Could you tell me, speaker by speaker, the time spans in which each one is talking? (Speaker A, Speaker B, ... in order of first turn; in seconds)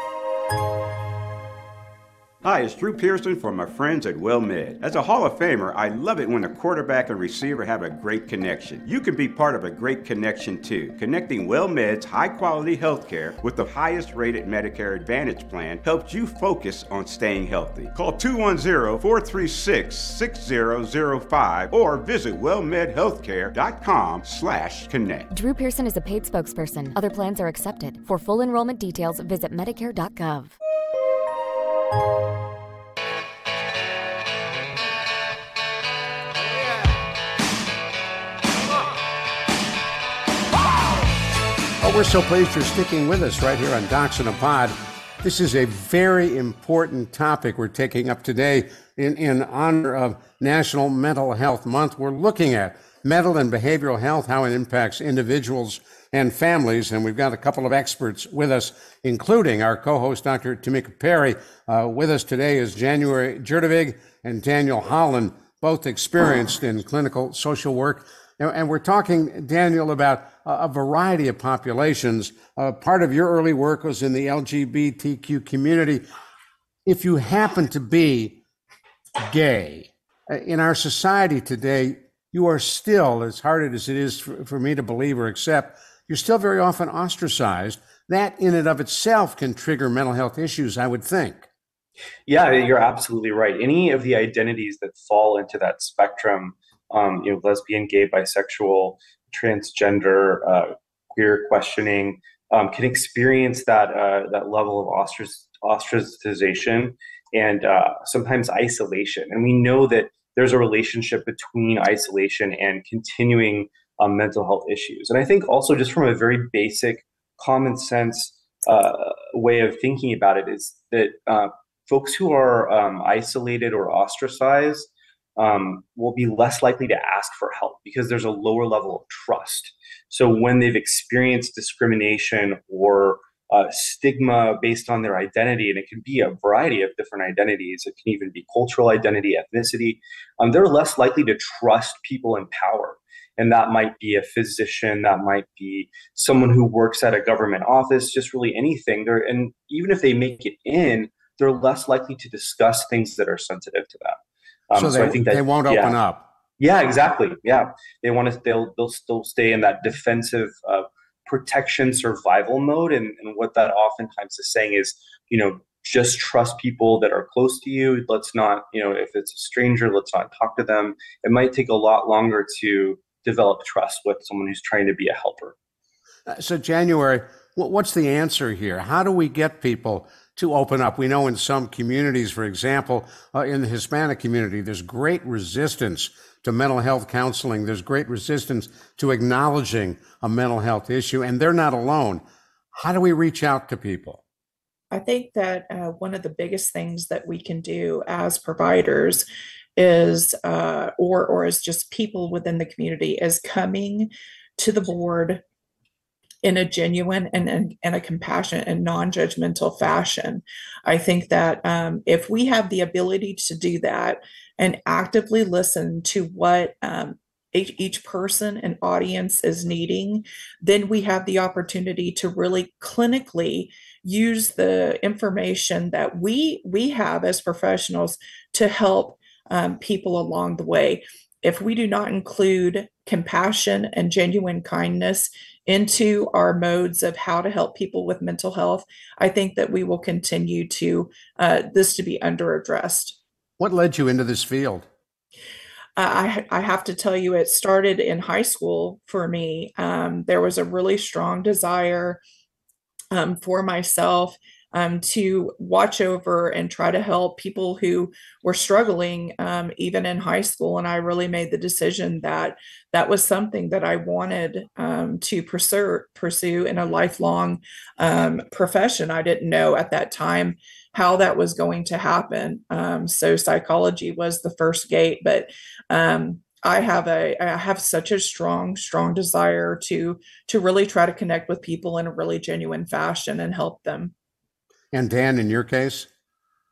Speaker A: 2.4-25.3
Speaker B: 25.3-30.5
Speaker C: 41.8-76.0, 76.8-78.4, 79.2-91.5, 154.7-156.3, 176.3-194.2, 243.6-244.9, 284.9-286.1
Speaker D: 92.3-154.2, 154.7-156.0, 156.6-175.5
Speaker E: 194.9-199.2, 199.8-205.4, 206.4-243.2, 246.0-252.2, 253.1-284.1